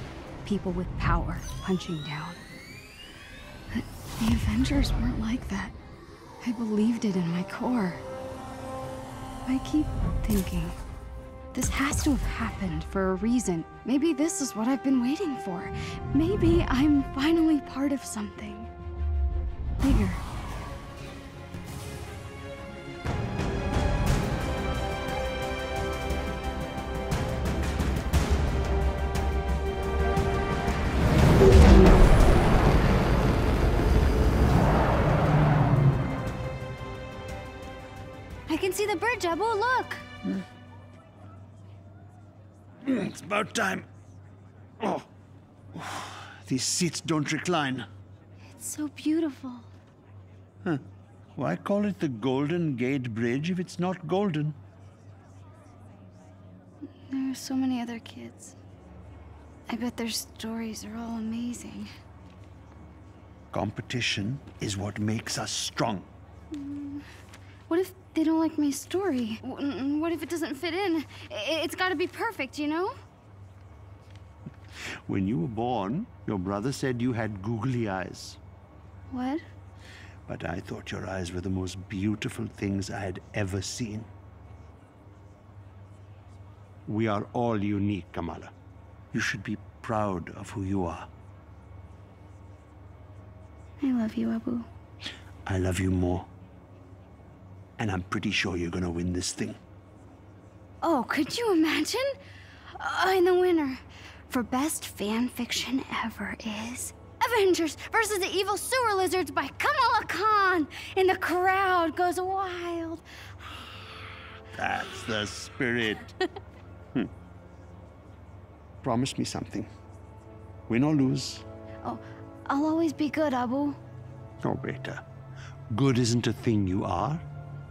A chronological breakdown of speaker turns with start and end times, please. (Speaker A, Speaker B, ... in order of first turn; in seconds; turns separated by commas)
Speaker A: 0.4-2.4, Speaker A: 3.7-5.7, Speaker A: 6.4-8.0, Speaker A: 9.4-10.8, Speaker A: 11.5-18.7, Speaker A: 19.8-20.2, Speaker A: 38.5-40.0, Speaker B: 42.8-43.9, Speaker B: 44.8-45.1, Speaker B: 45.7-47.9, Speaker A: 48.6-49.7, Speaker B: 51.4-54.6, Speaker A: 57.1-58.5, Speaker A: 59.7-61.9, Speaker B: 63.5-66.1, Speaker A: 66.5-67.0, Speaker A: 67.7-73.0, Speaker B: 75.0-78.4, Speaker A: 79.1-79.4, Speaker B: 80.3-84.1, Speaker B: 86.9-88.5, Speaker B: 89.1-91.1, Speaker A: 93.8-94.7, Speaker B: 95.5-96.3, Speaker B: 97.8-99.6, Speaker A: 100.8-102.2, Speaker A: 102.8-113.0, Speaker B: 114.5-116.1, Speaker B: 118.8-119.7, Speaker B: 120.7-121.4, Speaker A: 121.8-123.8, Speaker B: 124.4-125.0, Speaker B: 125.7-127.2